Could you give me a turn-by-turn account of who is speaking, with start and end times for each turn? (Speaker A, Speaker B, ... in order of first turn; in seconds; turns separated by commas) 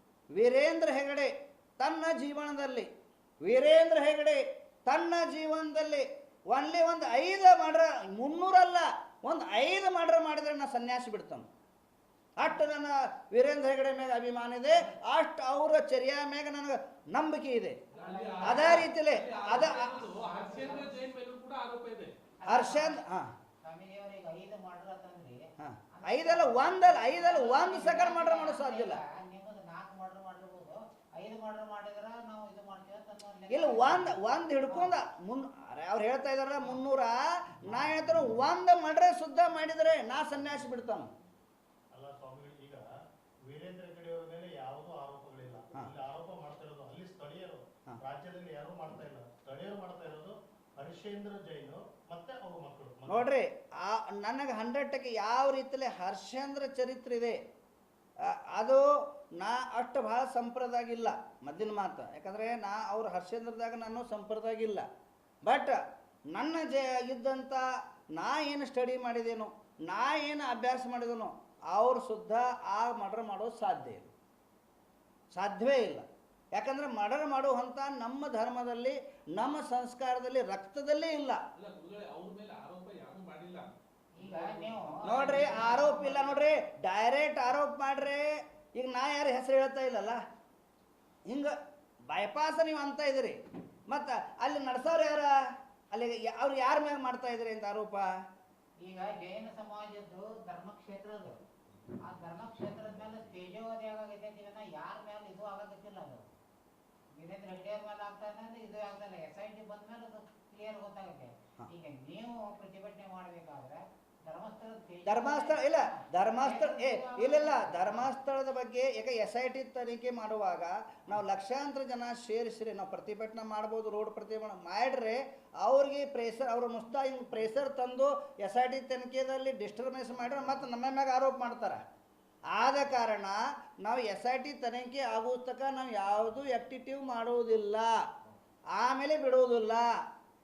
Speaker A: 0.3-2.9, Speaker A: 3.4-11.5, Speaker A: 12.4-17.8, Speaker B: 17.9-18.9, Speaker C: 17.9-22.1, Speaker A: 18.4-20.0, Speaker B: 19.5-21.1, Speaker B: 22.4-23.0, Speaker A: 22.5-23.3, Speaker B: 23.6-34.2, Speaker A: 25.6-29.0, Speaker A: 33.5-41.1, Speaker B: 34.7-35.0, Speaker D: 41.9-42.8, Speaker D: 43.5-53.3, Speaker A: 53.1-57.4, Speaker A: 58.2-64.9, Speaker A: 65.5-65.8, Speaker A: 66.3-74.1, Speaker A: 75.3-81.4, Speaker C: 81.6-83.7, Speaker B: 84.2-86.3, Speaker C: 84.2-85.7, Speaker A: 85.1-90.2, Speaker A: 91.3-91.5, Speaker A: 92.1-95.4, Speaker A: 95.9-98.1, Speaker B: 98.8-101.4, Speaker B: 102.0-106.3, Speaker B: 107.1-118.1, Speaker A: 115.1-131.8, Speaker A: 132.5-138.0, Speaker A: 138.7-139.9